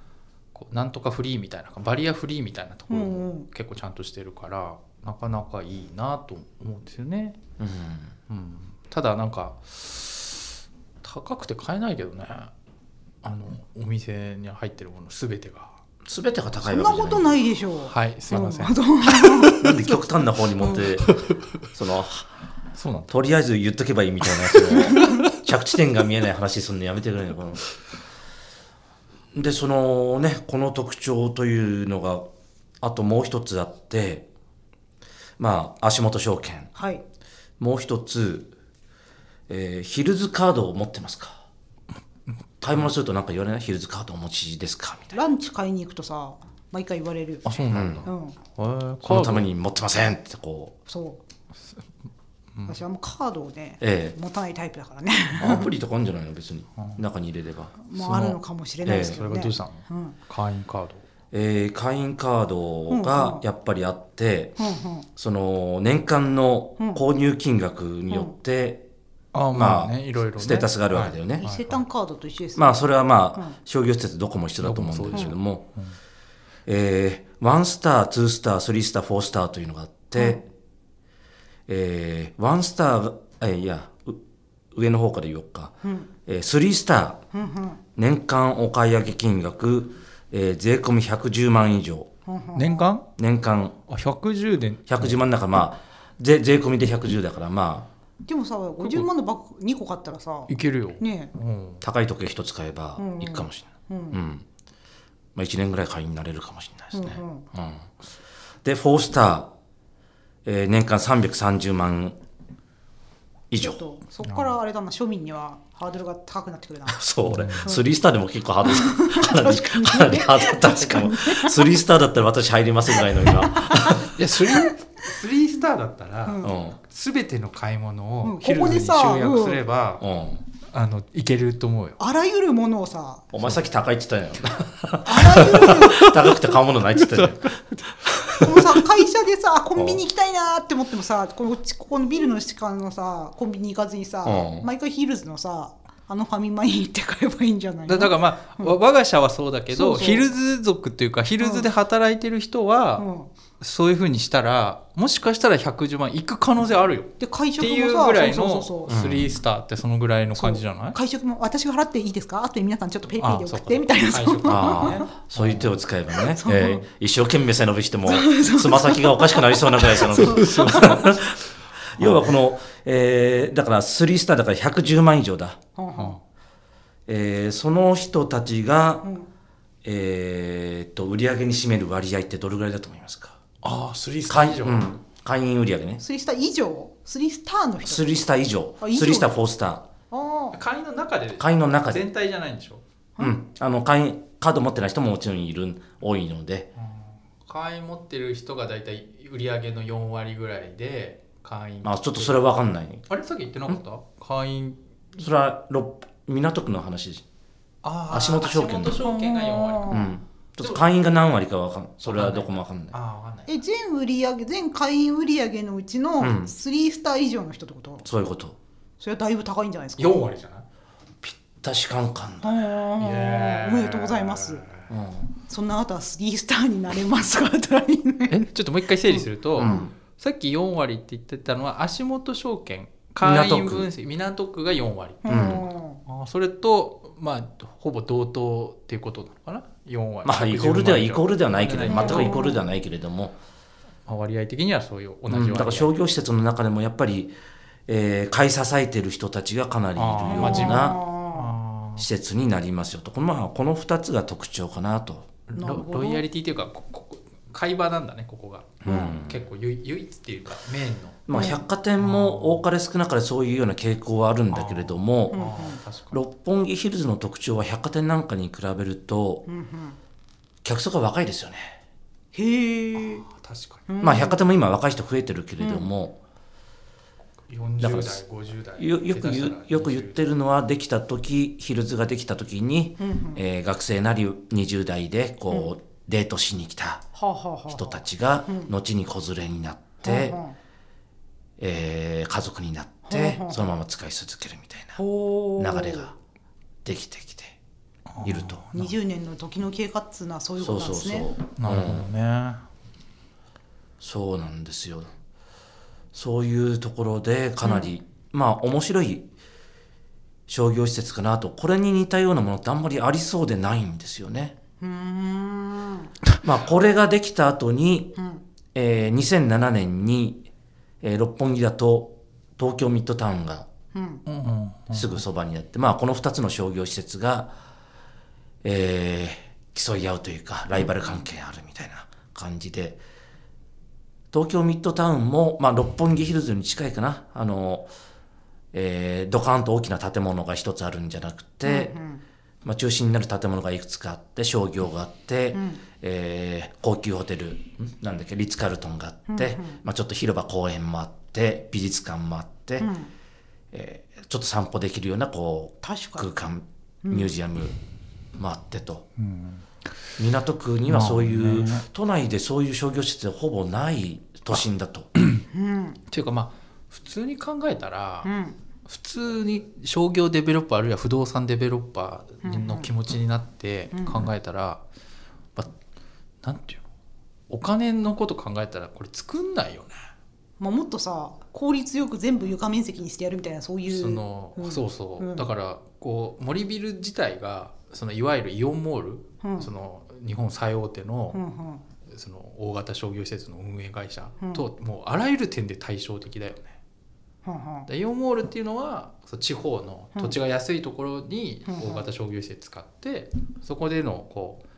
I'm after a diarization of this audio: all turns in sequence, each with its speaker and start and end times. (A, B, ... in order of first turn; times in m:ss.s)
0:00.5-0:07.4 A
0:02.9-0:03.5 B
0:07.6-0:08.2 C
0:08.3-0:10.4 A
0:11.0-0:12.5 A
0:13.2-0:15.8 A
0:16.0-0:17.4 C
0:16.6-0:19.9 B
0:17.9-0:19.7 A
0:19.6-0:21.2 C
0:20.8-0:21.5 A
0:21.7-0:22.3 C
0:22.8-0:23.1 A
0:23.1-0:27.7 C
0:24.4-0:25.2 A
0:29.3-0:32.3 C
0:32.8-0:34.3 C
0:35.4-0:36.7 C
0:36.8-0:37.0 B
0:37.6-0:38.5 C
0:39.5-0:41.5 C
0:42.3-0:42.8 A
0:42.6-0:45.2 C
0:45.1-0:48.4 B
0:47.4-0:49.5 A
0:47.7-0:48.1 C
0:49.0-0:50.8 C
0:50.9-0:51.2 B
0:52.6-0:55.7 B
0:53.8-0:54.2 C
0:55.4-0:57.8 C
0:56.8-0:57.0 A
0:57.8-1:00.2 B
0:57.9-1:01.0 A
0:58.9-0:59.2 C
1:01.3-1:04.6 C
1:02.9-1:03.4 B
1:04.6-1:05.1 B
1:05.2-1:08.8 C
1:09.3-1:11.8 A
1:09.5-1:11.4 C
1:11.4-1:13.6 B
1:12.6-1:15.7 C
1:14.6-1:16.0 A
1:16.7-1:20.4 C
1:21.7-1:24.2 C
1:24.7-1:27.2 C
1:25.8-1:26.1 B
1:27.3-1:27.8 B
1:28.0-1:32.1 C
1:32.3-1:32.8 B
1:32.6-1:33.1 A
1:33.2-1:33.8 C
1:33.9-1:35.2 A
1:34.9-1:37.9 C
1:38.3-1:41.3 B
1:38.8-1:39.1 A
1:40.5-1:41.8 A
1:41.8-1:44.5 C
1:43.0-1:44.2 B
1:45.4-1:47.9 C
1:46.9-1:47.5 B
1:48.6-1:49.5 C
1:50.4-1:52.2 C
1:53.5-1:53.8 C
1:53.6-1:57.0 B
1:54.3-1:54.5 A
1:56.9-2:04.1 C
1:57.3-1:57.7 A
1:58.7-2:01.8 B
2:03.2-2:04.7 B
2:04.1-2:10.0 A
2:06.2-2:06.6 B
2:06.4-2:06.8 C
2:08.2-2:09.6 B
2:10.0-2:10.4 C
2:10.6-2:12.0 A
2:12.0-2:13.3 B
2:13.3-2:17.6 C
2:15.0-2:16.1 B
2:15.8-2:18.6 A
2:18.4-2:28.8 B
2:19.8-2:20.0 C
2:24.2-2:24.7 C
2:27.9-2:33.1 A
2:29.7-2:30.3 B
2:31.4-2:31.7 B
2:33.0-2:33.3 B
2:33.6-2:41.0 A
2:37.2-2:39.0 B
2:38.9-2:39.3 C
2:40.4-2:45.1 B
2:43.2-2:45.8 A
2:44.5-2:55.6 C
2:46.2-2:46.8 B
2:48.1-2:51.0 B
2:50.2-2:51.0 A
2:55.8-2:56.2 B
2:57.1-2:59.0 C
2:59.0-2:59.3 B
2:59.8-3:03.4 C
3:03.6-3:04.9 A
3:04.3-3:06.0 C
3:06.0-3:08.2 B
3:07.8-3:09.9 C
3:08.8-3:09.3 B
3:10.1-3:10.6 B
3:10.5-3:12.8 A
3:11.4-3:12.1 C
3:13.2-3:16.7 C
3:16.8-3:22.4 A
3:21.8-3:23.0 C
3:23.1-3:24.8 A
3:25.2-3:27.2 C
3:27.8-3:30.0 A
3:28.1-3:29.0 C
3:29.0-3:30.2 B
3:29.9-3:33.0 C
3:30.6-3:30.9 A
3:32.0-3:33.6 A
3:33.5-3:38.1 B
3:36.2-3:36.5 C
3:38.0-3:38.6 C
3:39.0-3:40.3 B
3:40.0-3:40.7 A
3:41.2-3:42.5 C
3:42.4-3:44.6 B
3:43.0-3:44.9 A
3:44.9-3:45.3 C
3:45.5-3:48.4 B
3:48.3-4:02.5 A
3:49.1-3:49.9 B
3:49.6-3:49.9 C
3:53.2-3:53.9 C
3:55.2-3:56.0 B
3:55.3-3:55.6 C
4:00.2-4:03.4 C
4:01.9-4:02.6 B
4:04.1-4:05.9 A
4:05.3-4:07.4 C
4:07.9-4:11.0 C
4:10.0-4:12.0 A
4:10.2-4:11.5 B
4:12.0-4:15.3 C
4:15.5-4:21.3 A
4:15.6-4:16.2 B
4:18.8-4:19.1 B
4:18.8-4:19.4 C
4:21.3-4:25.5 C
4:21.3-4:21.6 B
4:22.0-4:22.6 A
4:24.5-4:26.2 A
4:25.3-4:25.8 B
4:26.1-4:29.4 C
4:29.5-4:30.0 B
4:30.6-4:31.8 C
4:32.3-4:33.2 B
4:33.0-4:33.8 A
4:33.9-4:34.4 B
4:34.0-4:36.2 C
4:35.6-4:35.9 B
4:37.5-4:40.2 A
4:37.8-4:38.2 C
4:38.8-4:47.1 C
4:43.0-4:43.4 B
4:47.2-4:48.7 B
4:47.7-4:50.4 C
4:50.0-4:50.6 B
4:51.6-4:55.0 C
4:53.1-4:53.7 B
4:55.0-4:56.1 B
4:55.6-4:56.1 C
4:56.8-4:57.6 C
4:58.1-4:59.0 A
4:58.2-4:58.6 C
4:58.7-5:01.3 B
5:00.6-5:02.1 C
5:01.6-5:02.6 A
5:04.0-5:05.1 C
5:06.1-5:09.3 C
5:07.6-5:07.9 B
5:10.5-5:14.6 C
5:14.8-5:16.2 B
5:16.4-5:18.2 C
5:18.2-5:18.4 B
5:18.8-5:20.5 C
5:21.0-5:23.7 C
5:23.9-5:24.2 B
5:24.3-5:25.2 A
5:24.9-5:27.6 C
5:28.6-5:33.0 C
5:34.3-5:37.9 C
5:38.7-5:41.9 C
5:41.6-5:42.2 B
5:42.6-5:52.9 C
5:45.5-5:45.8 B
5:49.3-5:49.8 B
5:52.8-5:53.1 B
5:53.7-5:57.8 C
5:55.8-5:56.3 B
5:57.0-5:57.3 B
5:58.4-5:59.1 C
5:59.2-5:59.6 A
6:00.2-6:05.1 C
6:00.9-6:01.8 A
6:05.5-6:06.0 B
6:06.1-6:08.3 A
6:08.2-6:08.6 B
6:08.9-6:14.8 A
6:12.4-6:12.9 B
6:13.9-6:14.3 B
6:16.4-6:16.8 A
6:17.5-6:20.0 A
6:20.6-6:25.5 B
6:23.9-6:31.4 A
6:29.4-6:29.7 B
6:31.3-6:31.8 B
6:32.0-6:36.8 A
6:37.4-6:37.9 B
6:37.9-6:44.6 A
6:41.7-6:42.1 B